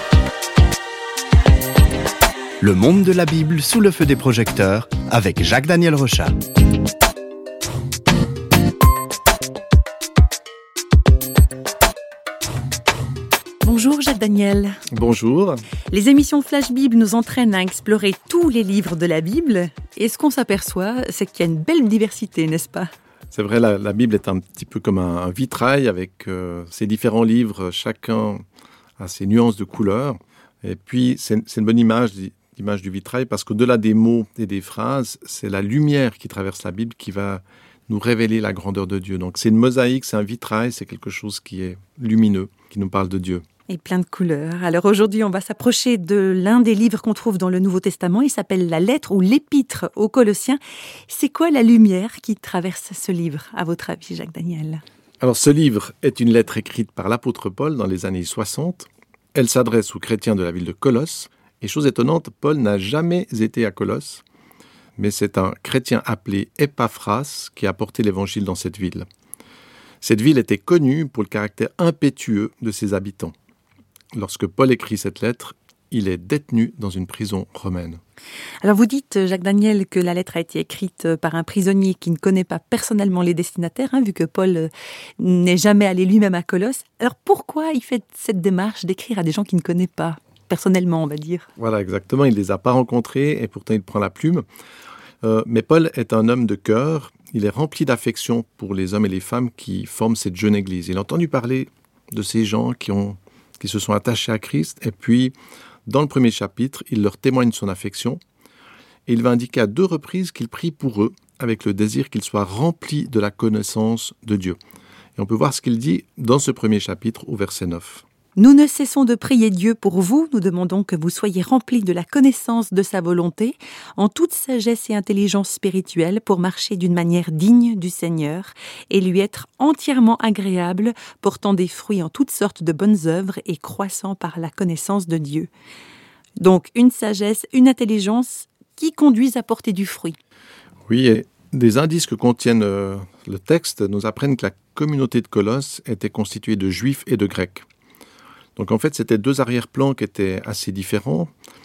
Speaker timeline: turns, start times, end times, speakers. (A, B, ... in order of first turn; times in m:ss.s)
0:02.6-0:06.3 A
0:13.6-0:14.8 B
0:14.9-0:15.6 C
0:15.9-0:22.9 B
0:23.3-0:28.4 C
0:29.0-0:43.4 C
0:43.7-0:54.8 B
0:55.2-1:04.2 C
1:05.0-1:09.1 C
1:10.0-1:13.3 C
1:14.1-1:18.0 C
1:18.6-1:31.5 B
1:31.6-1:34.4 C
1:35.2-1:45.3 C
1:45.9-1:48.2 C
1:49.1-1:54.6 C
1:55.2-1:58.0 C
1:58.4-2:15.5 B
2:16.4-2:20.2 B
2:20.9-2:27.6 C
2:28.6-2:31.3 C